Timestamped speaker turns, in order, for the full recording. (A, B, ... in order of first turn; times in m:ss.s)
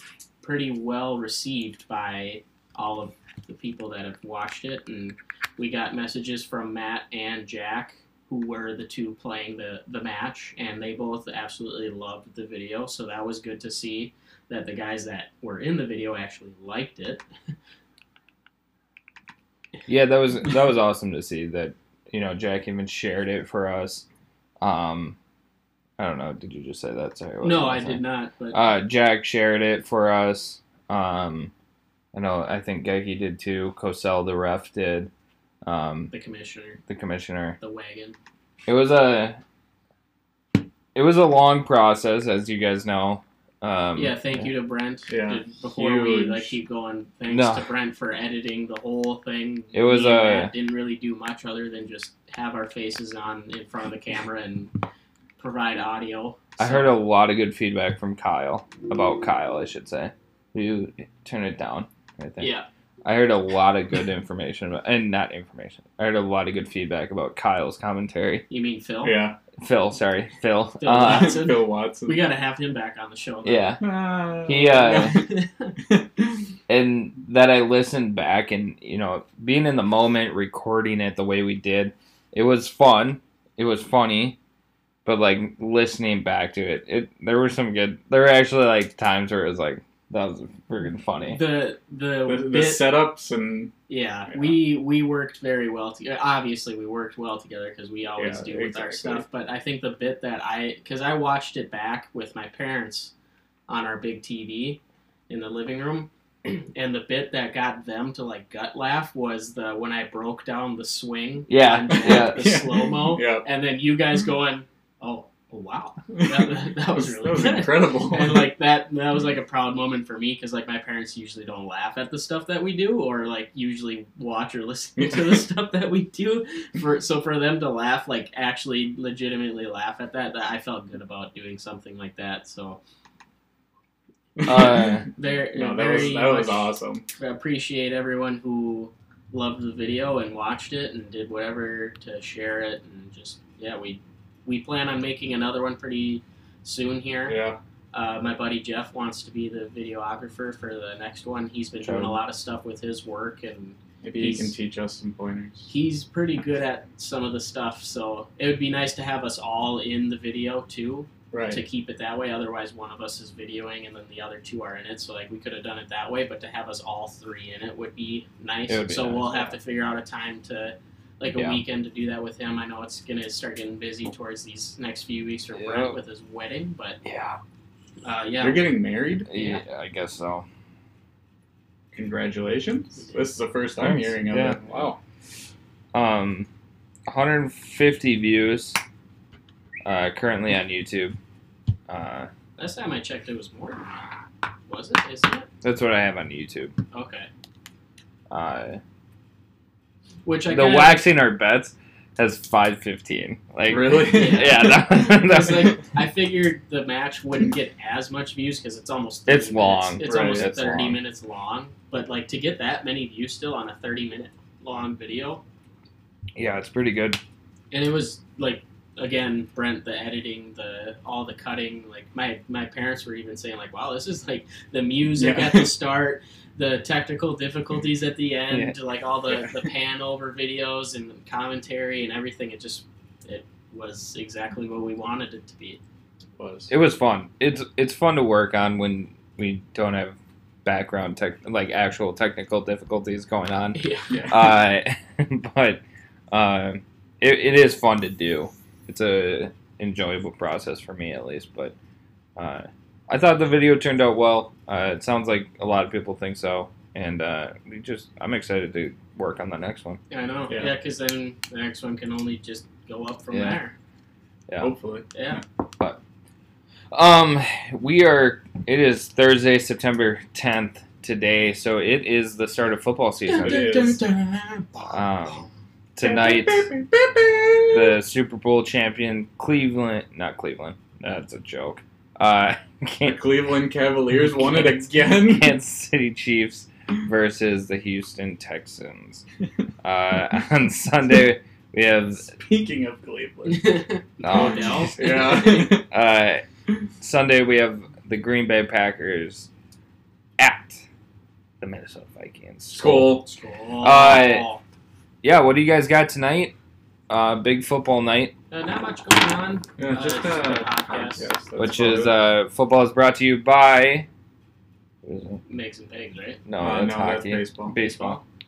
0:00.4-0:17.2 A
0:19.9-0:24.0 B
0:24.6-0:25.2 B
0:26.0-0:28.0 B
0:27.4-0:28.6 A
0:28.5-0:31.5 B
0:32.1-0:35.1 B
0:35.6-0:36.1 B
0:36.1-0:36.8 A
0:36.9-0:37.6 B
0:37.6-0:38.2 A
0:38.7-0:39.4 B
0:40.9-0:44.5 B
0:43.9-0:54.8 A
0:45.1-0:46.6 C
0:47.3-0:47.7 B
0:49.7-0:50.5 B
0:55.4-0:56.9 A
0:56.6-1:02.5 B
1:02.4-1:02.7 A
1:03.0-1:08.4 B
1:08.5-1:09.3 A
1:09.0-1:09.4 C
1:09.6-1:11.4 B
1:10.8-1:13.8 A
1:11.0-1:12.2 C
1:13.4-1:13.8 B
1:13.8-1:15.2 C
1:14.4-1:15.2 B
1:15.0-1:15.7 A
1:15.8-1:16.4 C
1:16.7-1:24.4 B
1:25.0-1:31.4 B
1:31.2-1:32.8 A
1:32.3-1:33.7 C
1:33.9-1:43.1 A
1:38.2-1:39.2 C
1:43.7-2:12.8 A
1:51.5-1:52.6 B
1:52.0-1:53.4 C
1:56.1-1:58.5 C
2:05.0-2:05.4 C
2:14.4-2:17.0 C
2:14.4-2:15.1 B
2:14.5-2:34.5 A
2:27.2-2:27.6 C
2:31.8-2:32.2 B
2:34.0-2:35.7 C
2:35.7-2:57.0 A
2:41.3-2:41.6 C
2:48.7-2:49.5 B
2:51.3-2:51.6 B
2:55.5-2:56.0 B
2:57.0-2:57.4 B
2:58.0-2:58.8 A
2:58.4-2:59.3 C
2:59.3-3:00.4 B
2:59.3-2:59.6 A
3:01.9-3:05.0 C
3:03.8-3:04.6 B
3:05.9-3:06.5 B
3:07.1-3:08.8 B
3:09.8-3:11.2 B
3:11.9-3:12.3 B
3:12.6-3:14.1 A
3:14.7-3:15.5 A
3:15.6-3:16.7 B
3:16.9-3:17.3 A
3:18.3-3:18.8 B
3:20.2-3:21.1 A
3:20.5-3:25.8 B
3:23.7-3:24.8 C
3:24.1-3:35.4 A
3:29.3-3:31.0 B
3:30.0-3:30.5 C
3:36.3-3:37.2 B
3:37.7-3:55.8 A
3:45.1-3:45.7 C
3:49.3-3:49.6 C
3:56.4-3:56.7 C
3:56.7-4:11.7 B
4:03.7-4:04.1 A
4:04.1-4:04.6 C
4:12.4-4:20.0 B
4:20.1-4:23.7 A
4:23.3-4:23.6 B
4:24.5-4:24.7 B
4:24.6-4:25.1 C
4:25.1-4:25.4 A
4:26.9-4:33.8 B
4:33.3-4:35.0 A
4:33.4-4:34.0 C
4:34.9-4:36.7 B
4:36.0-4:38.0 C
4:37.7-4:43.2 B
4:43.0-4:45.5 C
4:44.4-4:49.2 B
4:49.8-4:52.3 B
4:52.3-4:55.9 C
4:53.4-4:55.6 A
4:54.2-4:56.4 B
4:57.0-4:59.5 B
5:00.4-5:00.8 B
5:01.6-5:03.2 B
5:02.7-5:03.3 C
5:03.2-5:04.6 A
5:03.8-5:04.5 B
5:05.2-5:06.5 B
5:07.1-5:08.3 B
5:08.5-5:11.3 A
5:09.8-5:12.2 C
5:11.6-5:14.1 B
5:15.0-5:15.4 B
5:15.5-5:16.4 A
5:16.4-5:18.2 B
5:16.6-5:17.8 C
5:17.7-5:18.2 A